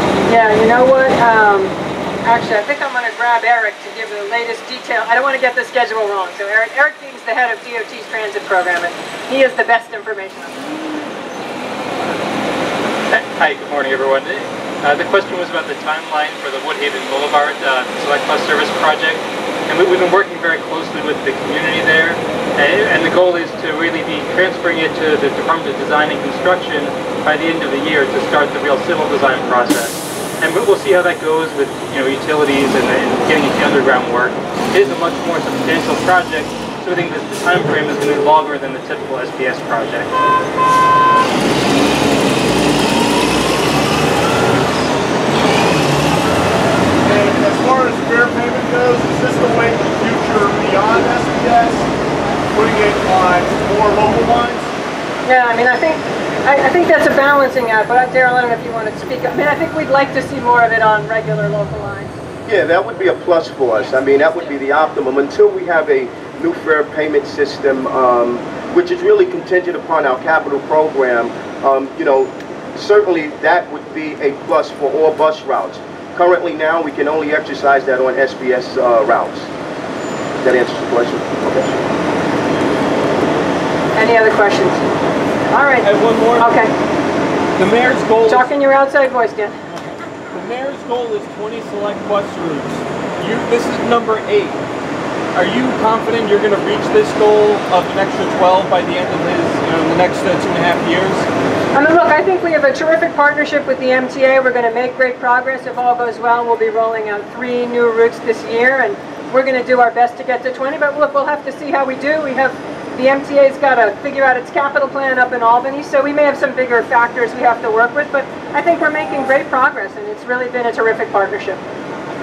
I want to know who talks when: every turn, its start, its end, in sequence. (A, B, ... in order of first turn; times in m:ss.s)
0:00.3-0:10.7 A
0:13.1-0:40.1 B
0:47.0-0:51.9 C
0:52.5-0:54.7 C
0:55.3-1:02.1 A
1:02.5-1:19.5 D
1:20.4-1:21.8 D
1:24.0-1:24.8 A
1:25.5-1:26.7 A
1:25.8-1:26.5 E
1:27.6-1:28.5 E
1:28.3-1:29.6 A
1:30.3-1:34.6 E
1:35.3-1:41.3 E
1:41.7-2:01.6 A